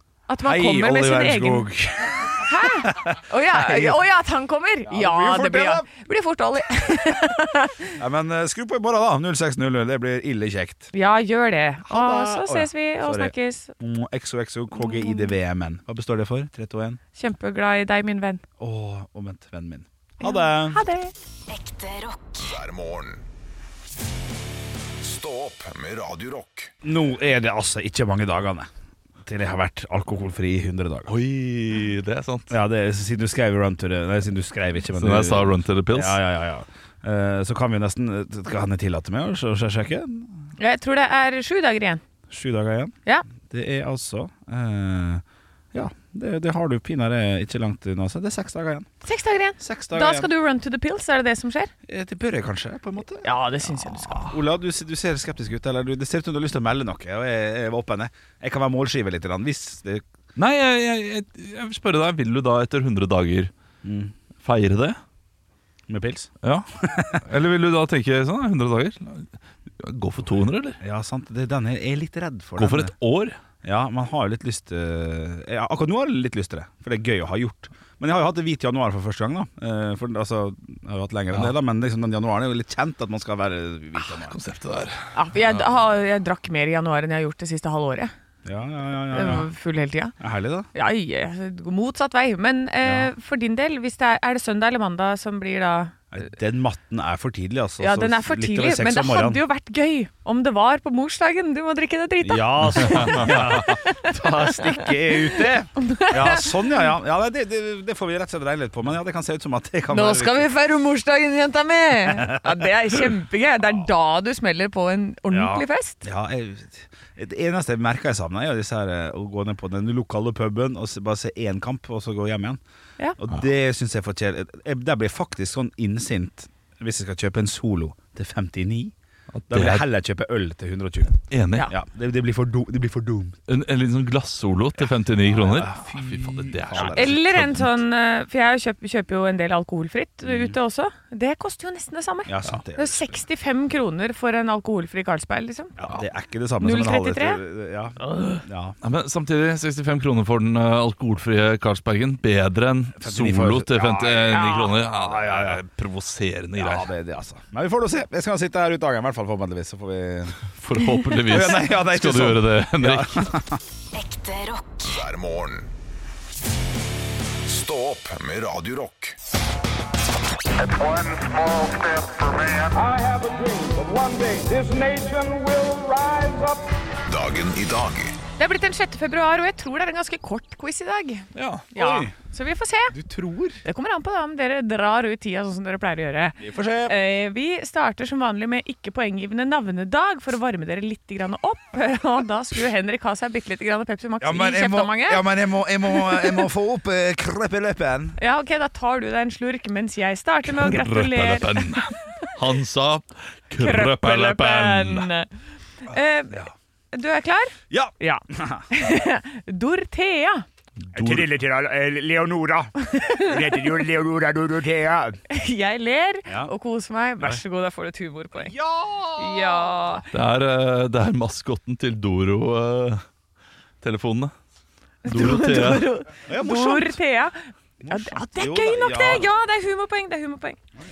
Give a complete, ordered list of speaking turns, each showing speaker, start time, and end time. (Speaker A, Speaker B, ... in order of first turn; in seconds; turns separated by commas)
Speaker A: 0.3-1.7, Speaker B: 0.4-4.0, Speaker A: 2.4-8.0, Speaker B: 4.8-5.8, Speaker B: 8.0-10.9, Speaker A: 10.9-13.7, Speaker B: 11.8-17.0, Speaker A: 14.7-15.3, Speaker A: 17.1-18.4, Speaker B: 18.6-20.8, Speaker A: 20.2-21.1, Speaker C: 21.5-22.5, Speaker D: 22.4-23.2, Speaker D: 25.0-26.7, Speaker B: 26.8-28.7, Speaker B: 29.2-31.1, Speaker E: 31.1-32.5, Speaker B: 32.5-40.3, Speaker E: 34.9-36.2, Speaker A: 40.6-42.0, Speaker B: 42.3-48.9, Speaker A: 49.0-51.7, Speaker B: 49.6-50.3, Speaker B: 51.9-60.0, Speaker A: 53.2-54.3, Speaker E: 60.4-63.5, Speaker B: 63.8-64.1, Speaker E: 64.4-65.0, Speaker B: 65.9-66.3, Speaker E: 66.4-70.8, Speaker B: 66.8-67.2, Speaker B: 70.8-72.9, Speaker E: 72.6-73.4, Speaker B: 73.6-84.4, Speaker E: 84.0-85.1, Speaker A: 85.1-88.1, Speaker B: 88.4-89.5, Speaker A: 89.1-90.1, Speaker B: 90.2-90.7, Speaker A: 90.7-95.9, Speaker B: 92.8-93.1, Speaker B: 96.1-99.4, Speaker A: 97.8-106.5, Speaker B: 102.2-110.5, Speaker E: 102.8-103.3, Speaker A: 109.9-116.0, Speaker B: 112.1-112.7, Speaker B: 115.3-122.6, Speaker B: 123.2-128.9, Speaker E: 129.3-129.8, Speaker B: 129.5-133.4, Speaker E: 131.3-131.7, Speaker E: 133.5-137.8, Speaker B: 134.8-137.2, Speaker A: 136.8-145.8, Speaker B: 140.2-140.6, Speaker B: 142.3-143.2, Speaker B: 145.8-148.8, Speaker A: 146.6-147.4, Speaker A: 148.0-148.4, Speaker E: 148.8-156.9, Speaker B: 153.0-155.6, Speaker A: 154.3-154.7, Speaker B: 156.6-160.4, Speaker E: 160.6-163.3, Speaker B: 161.2-163.6, Speaker C: 163.9-164.8, Speaker D: 164.8-165.7, Speaker D: 167.4-169.2, Speaker D: 171.1-172.7, Speaker B: 172.9-176.5, Speaker D: 177.1-178.2, Speaker A: 178.4-182.9, Speaker E: 181.3-181.7, Speaker B: 181.7-182.1, Speaker B: 182.9-183.6, Speaker A: 183.6-195.2, Speaker B: 186.4-186.9, Speaker B: 194.2-198.2, Speaker A: 196.0-196.4, Speaker A: 198.2-202.3, Speaker E: 200.5-205.1, Speaker A: 203.6-205.3, Speaker A: 205.8-210.4, Speaker B: 207.7-208.7, Speaker E: 210.8-211.3, Speaker B: 210.9-215.2, Speaker A: 212.8-213.4, Speaker A: 215.3-218.5, Speaker B: 216.3-216.5, Speaker B: 218.3-219.7, Speaker A: 219.2-220.0, Speaker E: 220.1-223.0, Speaker E: 223.8-224.3, Speaker A: 225.0-230.6, Speaker E: 225.1-225.8, Speaker B: 226.3-227.0, Speaker B: 227.8-229.3